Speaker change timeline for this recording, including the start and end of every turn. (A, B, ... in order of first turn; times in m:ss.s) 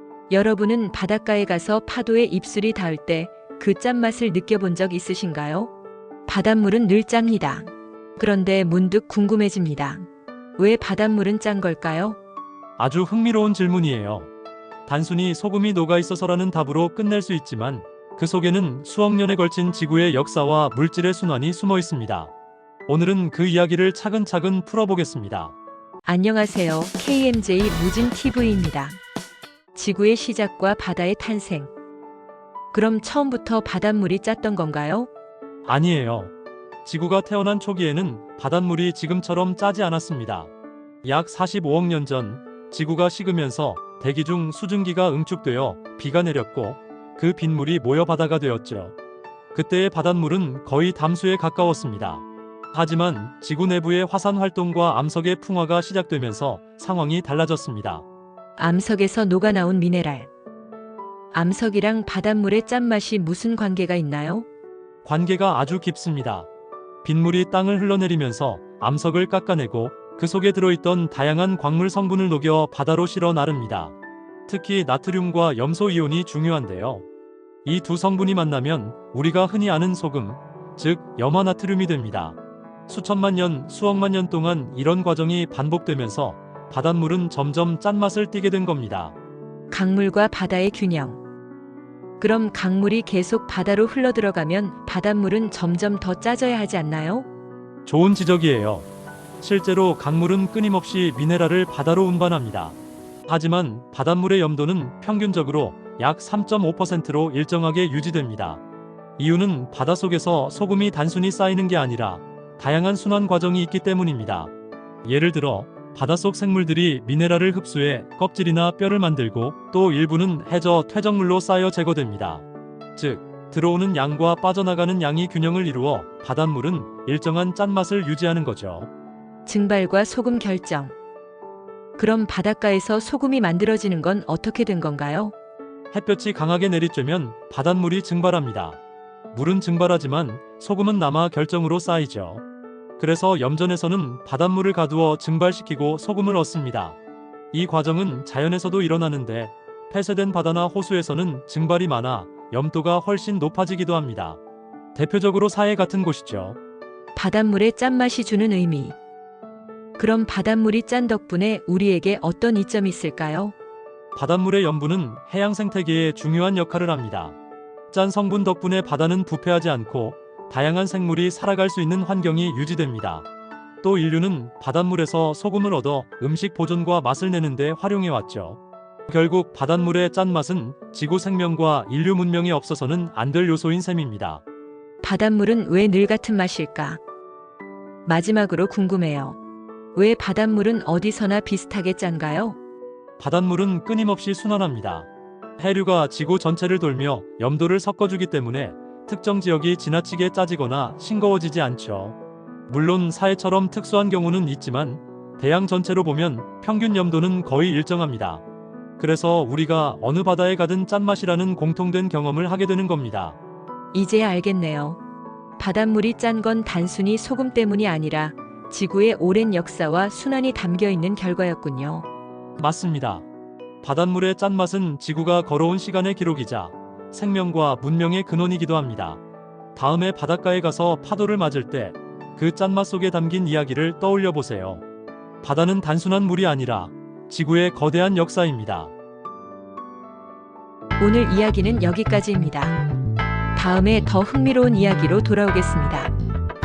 0:00.3-0:05.7 A
0:06.3-0:12.2 A
0:12.8-0:14.3 B
0:14.9-0:22.3 B
0:22.9-0:25.5 B
0:26.0-0:29.0 A
0:29.7-0:31.7 A
0:32.7-0:35.1 A
0:35.6-0:36.3 B
0:36.8-0:40.5 B
0:41.0-0:48.9 B
0:49.5-0:58.0 B
0:58.6-1:00.3 A
1:01.3-1:04.4 A
1:05.0-1:06.5 B
1:07.0-1:14.0 B
1:14.5-1:17.0 B
1:17.6-1:29.1 B
1:29.7-1:31.2 A
1:32.2-1:37.2 A
1:37.8-1:38.8 B
1:39.4-1:48.6 B
1:49.2-1:54.5 B
1:55.0-2:02.4 B
2:03.0-2:08.9 B
2:09.4-2:10.9 A
2:12.0-2:15.3 A
2:15.9-2:18.8 B
2:19.3-2:22.4 B
2:23.0-2:27.0 B
2:27.5-2:34.4 B
2:34.9-2:36.6 B
2:37.1-2:39.0 A
2:40.0-2:43.5 A
2:44.1-2:47.4 B
2:47.9-2:53.3 B
2:53.8-3:04.4 B
3:05.0-3:07.0 A
3:08.0-3:09.4 A
3:09.9-3:12.6 A
3:13.2-3:22.2 B
3:22.7-3:28.4 B
3:29.0-3:33.4 B
3:33.9-3:35.0 A
3:35.6-3:42.0 A
3:42.6-3:43.2 B
3:43.8-3:49.2 B
3:49.7-3:54.8 B
3:55.4-3:58.9 B
4:01.0-4:02.8 A
4:03.5-4:06.1 A